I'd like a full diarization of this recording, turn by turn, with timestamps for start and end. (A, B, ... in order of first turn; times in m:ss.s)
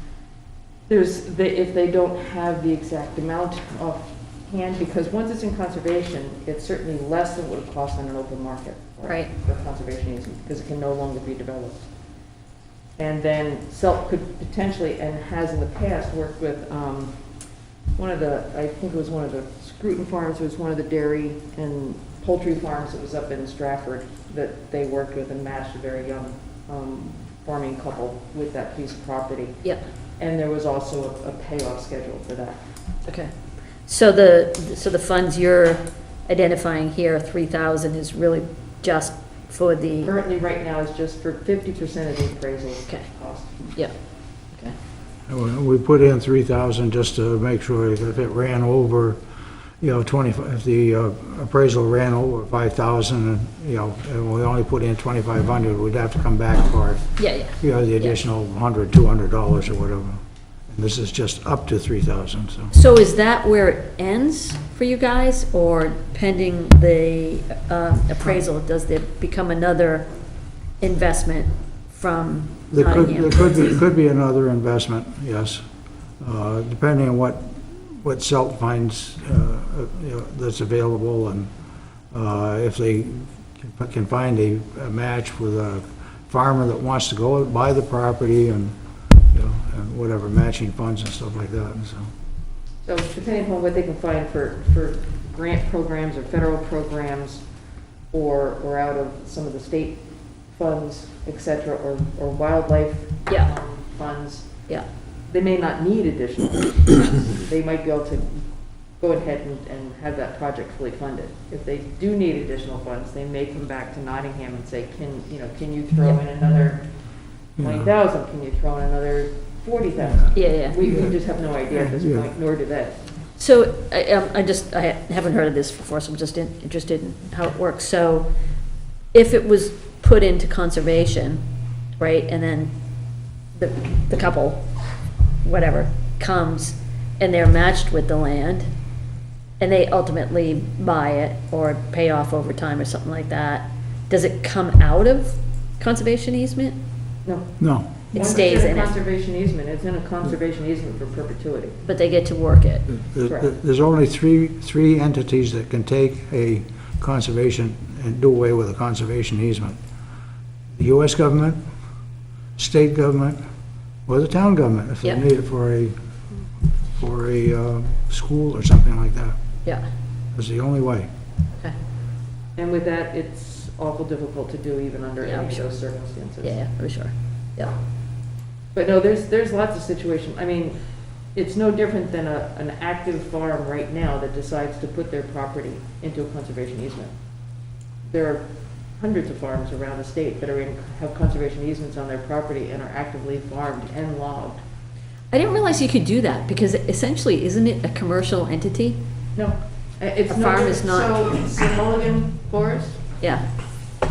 0:00.9-0:11.9 A
0:13.0-0:17.2 A
0:18.0-0:29.6 A
0:30.2-0:32.6 A
0:33.1-0:33.3 B
0:33.9-0:40.1 B
0:40.0-0:43.8 A
0:45.3-0:49.2 C
0:49.8-0:57.0 C
0:57.2-0:58.2 B
0:57.6-1:02.7 C
1:02.7-1:10.1 B
1:10.8-1:13.6 B
1:12.7-1:15.6 C
1:16.2-1:21.5 C
1:22.1-1:28.8 C
1:29.3-1:32.1 C
1:32.8-1:37.4 A
1:38.1-1:44.6 A
1:45.3-1:48.4 A
1:49.0-1:56.8 A
1:57.6-2:03.0 A
1:57.6-1:57.9 C
2:00.4-2:00.8 B
2:00.8-2:01.1 C
2:01.8-2:02.3 C
2:03.4-2:08.3 B
2:09.1-2:11.4 B
2:12.0-2:12.7 B
2:13.6-2:14.6 B
2:15.4-2:18.7 B
2:19.6-2:26.8 B
2:27.6-2:27.9 C
2:28.1-2:29.0 B
2:28.1-2:31.8 A
2:31.8-2:32.9 B
2:33.0-2:39.8 C
2:33.3-2:33.6 A
2:40.8-2:41.6 C
2:42.6-2:43.4 C
2:44.1-2:46.0 C
2:46.9-2:49.4 C
2:50.3-2:51.1 C
2:52.6-2:56.6 A
2:55.2-2:55.6 B
2:56.4-2:57.7 B
2:58.7-3:00.8 A
3:01.3-3:07.1 A
3:08.1-3:08.5 A
3:09.0-3:14.6 A
3:15.3-3:19.0 B
3:19.4-3:23.0 A
3:20.3-3:21.1 B
3:23.2-3:23.5 B